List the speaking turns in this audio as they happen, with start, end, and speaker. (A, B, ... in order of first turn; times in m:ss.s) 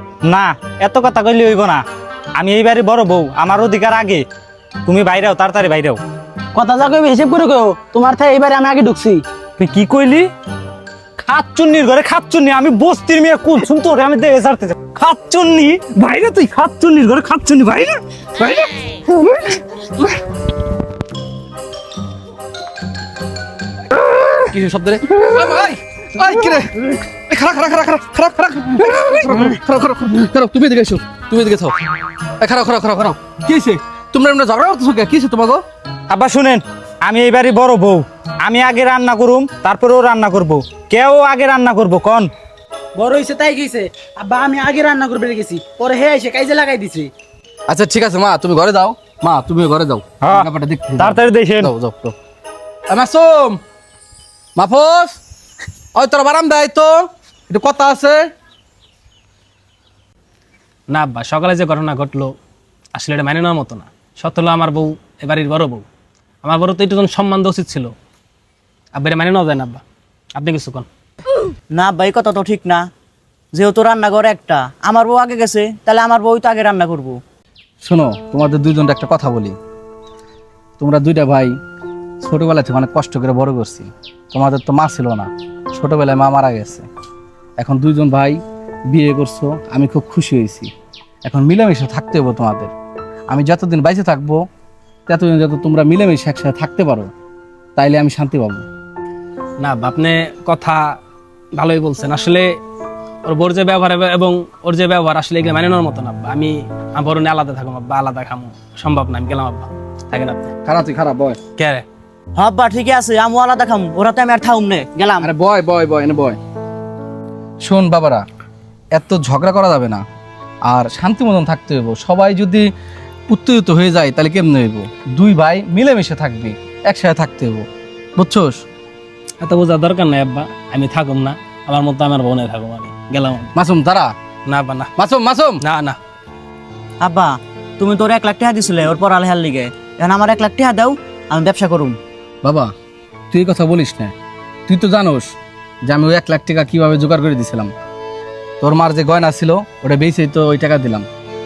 0:00.3-0:01.8 A
0:02.4-0:04.2 A
0:04.9-0:06.0 A
0:06.6-0:09.2 B
0:09.6-0:10.3 A
0:11.3-0:18.6 A
0:24.4-0:31.8 C
0:32.4-0:35.6 C
0:36.1-0:42.3 A
0:43.0-0:47.1 B
0:47.7-0:52.1 C
0:51.0-0:51.7 A
0:52.9-0:53.6 C
0:54.6-0:55.2 C
0:56.0-0:58.3 C
1:00.9-1:02.3 D
1:03.0-1:05.8 D
1:06.4-1:07.9 D
1:09.0-1:09.8 D
1:10.4-1:10.9 D
1:11.7-1:12.8 E
1:13.5-1:17.2 E
1:17.8-1:19.6 C
1:20.8-1:21.6 C
1:22.2-1:26.8 C
1:27.6-1:28.4 C
1:28.9-1:30.7 C
1:31.2-1:32.7 C
1:33.3-1:34.4 C
1:35.1-1:37.1 C
1:37.8-1:38.6 C
1:39.6-1:40.9 D
1:41.6-1:42.6 D
1:43.2-1:50.5 D
1:50.6-1:51.4 C
1:51.6-1:51.8 D
1:52.4-1:55.3 E
1:55.2-1:56.4 C
1:57.6-1:58.2 C
1:58.9-2:00.0 C
2:00.7-2:02.7 C
2:03.3-2:07.7 C
2:08.2-2:08.6 C
2:09.4-2:13.5 D
2:13.6-2:14.1 C
2:14.5-2:14.9 D
2:15.0-2:15.6 C
2:15.6-2:16.0 D
2:17.0-2:22.0 E
2:22.4-2:22.7 C
2:23.3-2:24.1 C
2:24.7-2:25.4 C
2:25.9-2:27.7 C
2:28.6-2:31.1 C